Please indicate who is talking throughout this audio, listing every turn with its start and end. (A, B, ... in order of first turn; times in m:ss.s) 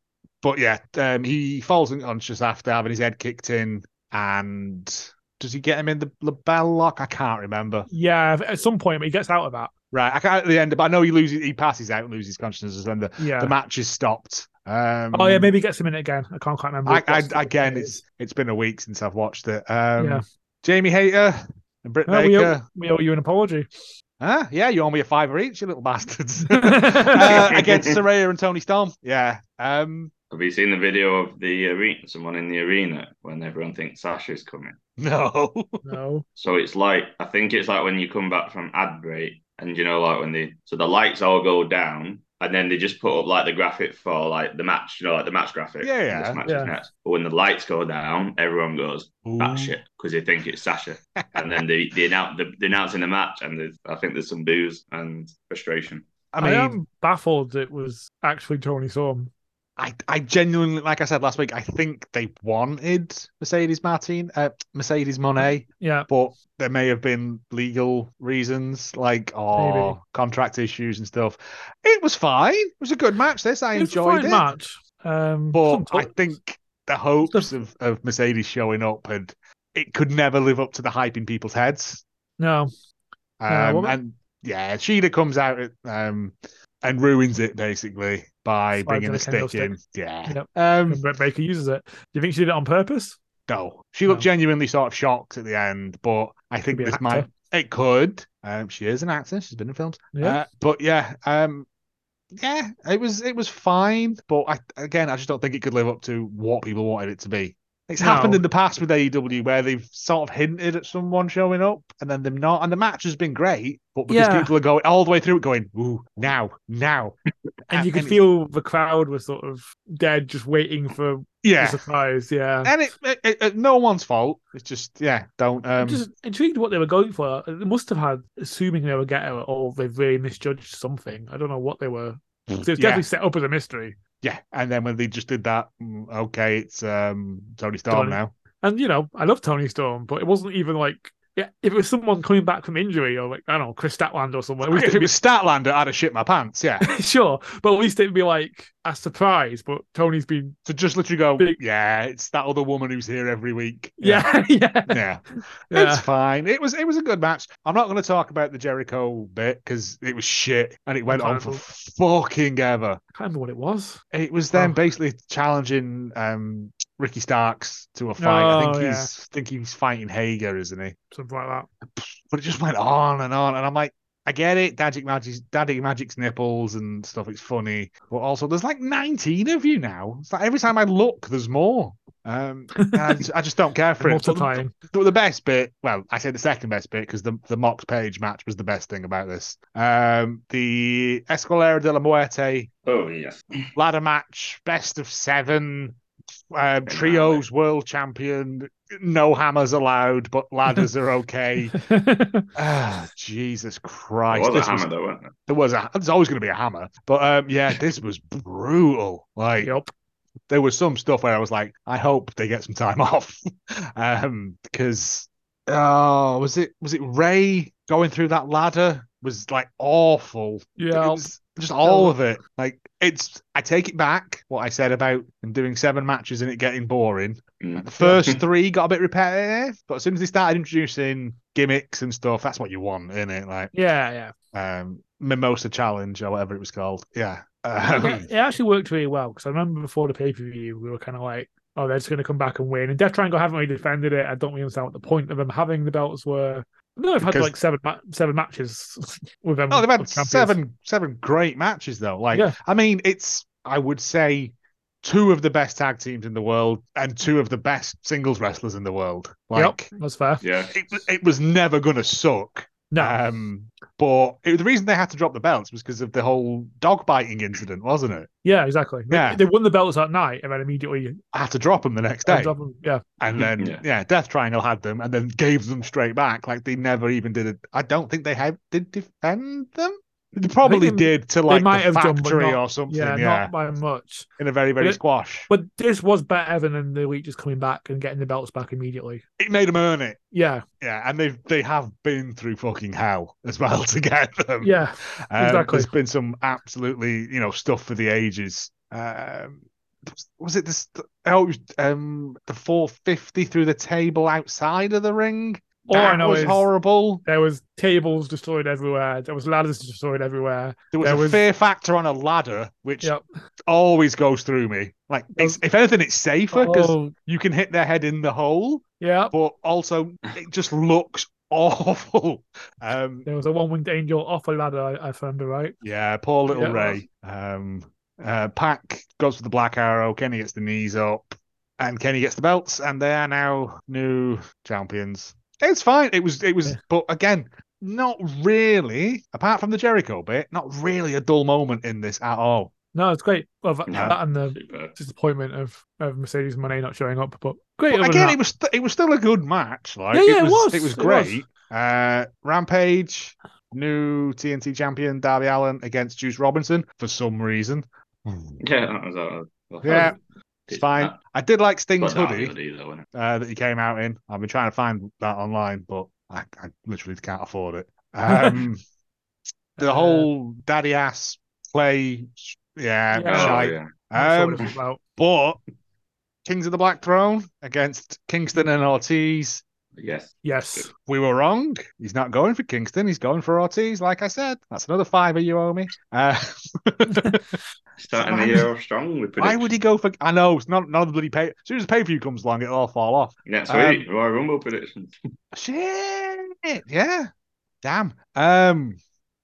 0:00.4-0:07.9 A
0:07.9-0:09.7 B
0:09.9-0:15.5 A
0:13.2-0:13.5 B
0:15.1-0:18.0 B
0:16.8-0:22.6 A
0:20.0-0:20.2 B
0:22.1-0:23.9 B
0:24.2-0:30.1 A
0:26.5-0:27.3 B
0:27.2-0:27.9 C
0:30.3-0:34.8 C
0:35.0-0:35.8 A
0:35.8-0:36.2 B
0:36.4-0:56.0 C
0:45.8-0:46.4 A
0:46.4-0:46.7 B
0:49.2-0:49.8 A
0:51.2-0:51.6 A
0:56.3-0:56.8 A
0:56.4-0:59.3 B
0:59.8-1:14.5 A
1:05.8-1:06.1 B
1:09.5-1:10.0 B
1:13.7-1:16.2 B
1:15.5-1:22.0 A
1:22.4-1:22.7 B
1:23.4-1:31.0 A
1:23.5-1:24.0 B
1:28.8-1:29.7 B
1:30.3-1:33.2 B
1:33.5-1:41.6 A
1:36.7-1:37.3 B
1:40.1-1:40.4 B
1:42.3-1:57.2 A
1:48.0-1:48.4 B
1:54.1-1:54.5 B
1:57.7-1:58.2 A
1:57.7-2:02.7 B
2:01.4-2:01.8 A
2:02.6-2:06.0 A
2:05.8-2:14.0 B
2:12.7-2:13.0 A
2:14.2-2:18.3 A
2:17.9-2:25.1 B
2:24.6-2:26.9 A
2:26.8-2:30.6 B
2:30.6-2:34.3 A
2:34.0-2:35.0 B
2:34.9-2:43.0 A
2:35.7-2:36.0 B
2:41.1-2:41.6 B
2:43.2-2:44.0 B
2:44.1-2:51.0 A
2:44.5-2:44.8 B
2:48.2-2:49.1 B
2:51.1-2:51.7 B
2:52.0-3:12.7 A
3:02.8-3:03.2 B
3:04.0-3:04.7 B
3:12.8-3:13.6 C
3:13.8-3:16.0 A
3:16.5-3:21.8 A
3:16.8-3:17.4 C
3:21.7-3:22.5 B
3:22.5-3:24.9 A
3:24.3-3:25.3 C
3:25.5-3:29.7 A
3:29.6-3:29.9 B
3:30.5-3:53.7 A
3:40.8-3:41.2 B
3:41.8-3:42.1 B
3:47.6-3:48.4 C
3:53.7-3:54.3 B
3:54.5-3:58.3 A
3:57.9-4:10.6 B
4:07.2-4:07.5 A
4:09.7-4:19.9 A
4:19.5-4:20.4 B
4:20.4-4:20.7 C
4:20.7-4:28.3 A
4:22.9-4:23.2 B
4:28.4-4:31.2 B
4:29.1-4:29.4 A
4:31.3-4:32.5 A
4:32.2-4:33.0 B
4:33.2-4:43.5 A
4:33.4-4:33.8 C
4:40.6-4:44.3 B
4:44.4-4:45.5 A
4:44.8-4:49.2 B
4:49.4-4:50.2 A
4:50.3-4:50.6 B
4:50.8-4:54.7 A
4:54.6-4:55.9 B
4:55.3-5:07.2 A
5:05.9-5:06.7 B
5:07.2-5:11.4 B
5:10.9-5:13.1 A
5:13.7-5:23.3 A
5:16.5-5:17.1 B
5:19.0-5:19.3 B
5:23.2-5:25.7 B
5:25.8-5:42.7 A
5:26.5-5:27.0 B
5:42.9-5:48.4 B
5:43.9-5:44.9 C
5:43.9-5:44.2 A
5:47.9-5:58.6 A
5:50.1-5:51.4 B
5:58.6-6:01.2 C
5:59.8-6:00.1 A
6:00.7-6:02.5 A
6:02.0-6:03.0 C
6:03.1-6:08.8 A
6:08.3-6:08.6 B
6:09.8-6:10.3 B
6:09.8-6:15.6 A
6:13.1-6:13.6 B
6:13.3-6:13.9 C
6:14.1-6:15.0 B
6:16.4-6:19.6 A
6:20.0-6:20.9 C
6:20.4-6:20.9 B
6:21.0-6:27.4 A
6:28.0-6:29.7 C
6:28.1-6:28.7 A
6:29.4-6:34.0 A
6:33.4-6:35.2 C
6:35.5-6:37.3 A
6:37.8-6:39.0 A